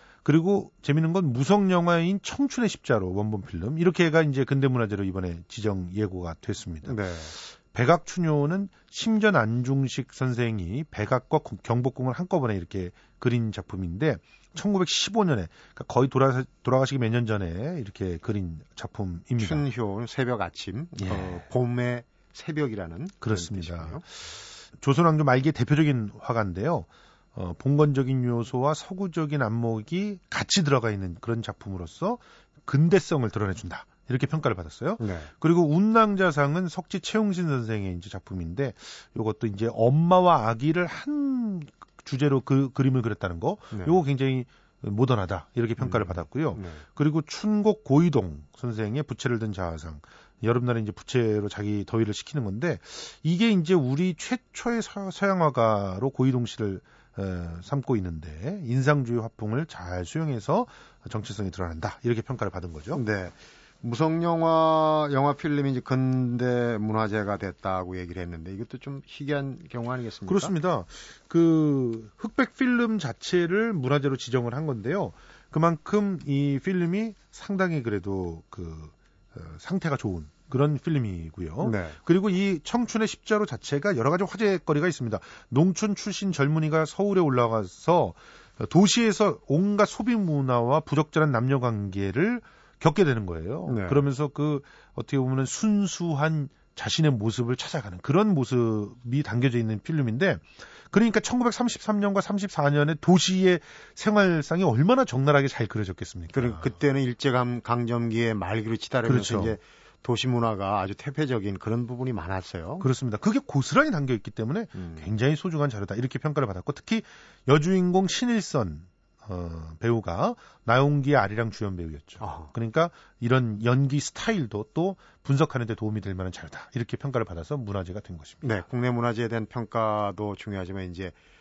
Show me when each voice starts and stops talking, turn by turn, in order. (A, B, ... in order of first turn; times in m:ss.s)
0:00.2-0:19.6 A
0:06.8-0:07.3 B
0:19.4-0:24.0 B
0:21.0-0:21.4 A
0:23.2-1:03.0 A
0:35.0-0:35.3 B
0:43.7-0:44.0 B
0:45.8-0:46.8 B
1:02.9-1:10.5 B
1:10.3-1:46.7 A
1:21.6-1:22.0 B
1:33.6-1:34.0 B
1:46.3-1:52.8 B
1:49.0-1:49.6 A
1:52.8-2:08.5 A
1:54.8-1:55.1 B
2:02.2-2:02.5 B
2:08.4-2:11.2 B